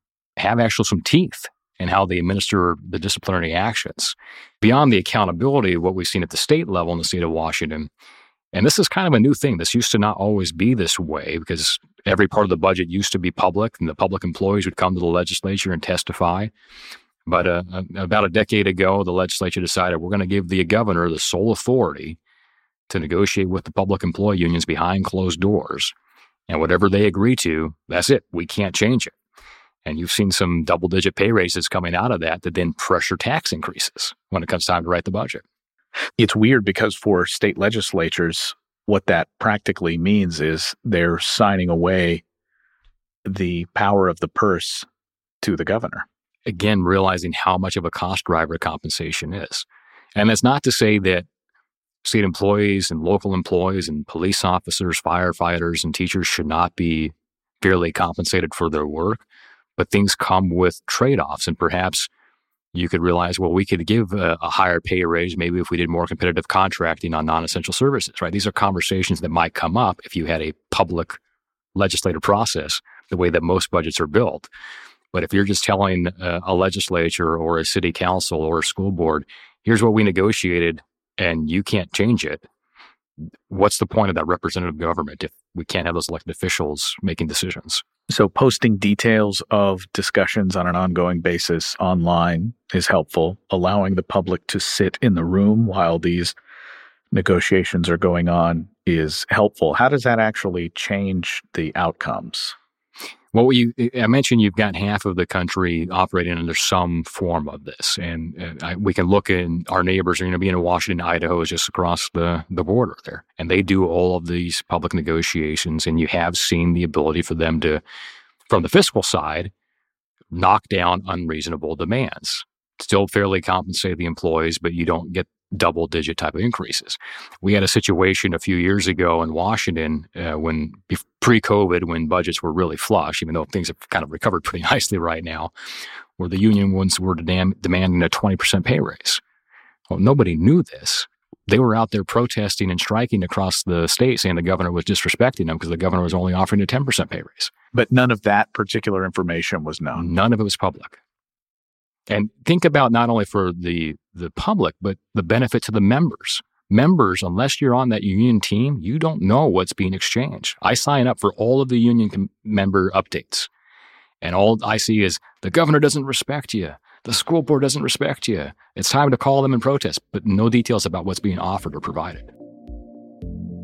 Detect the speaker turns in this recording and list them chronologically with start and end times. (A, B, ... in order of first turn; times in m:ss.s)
0:00.4-0:07.9 A
0:08.5-0:16.5 A
0:17.2-0:22.2 A
0:22.9-0:25.9 A
0:26.5-0:29.1 A
0:29.8-0:35.4 A
0:36.2-0:42.2 B
0:43.2-0:44.9 B
0:45.4-0:46.0 B
0:46.4-0:51.2 A
0:52.0-0:59.2 A
0:59.8-1:02.1 A
1:02.7-1:11.2 A
1:11.7-1:14.5 A
1:15.1-1:22.4 A
1:23.5-1:27.8 A
1:28.1-1:36.4 B
1:37.1-1:42.5 B
1:43.3-1:57.8 A
1:58.5-1:59.5 A
2:00.3-2:15.5 A
2:16.2-2:19.2 A
2:19.9-2:27.5 A
2:27.7-2:30.1 B
2:29.9-2:31.0 A
2:32.1-2:43.5 A
2:44.2-2:52.3 A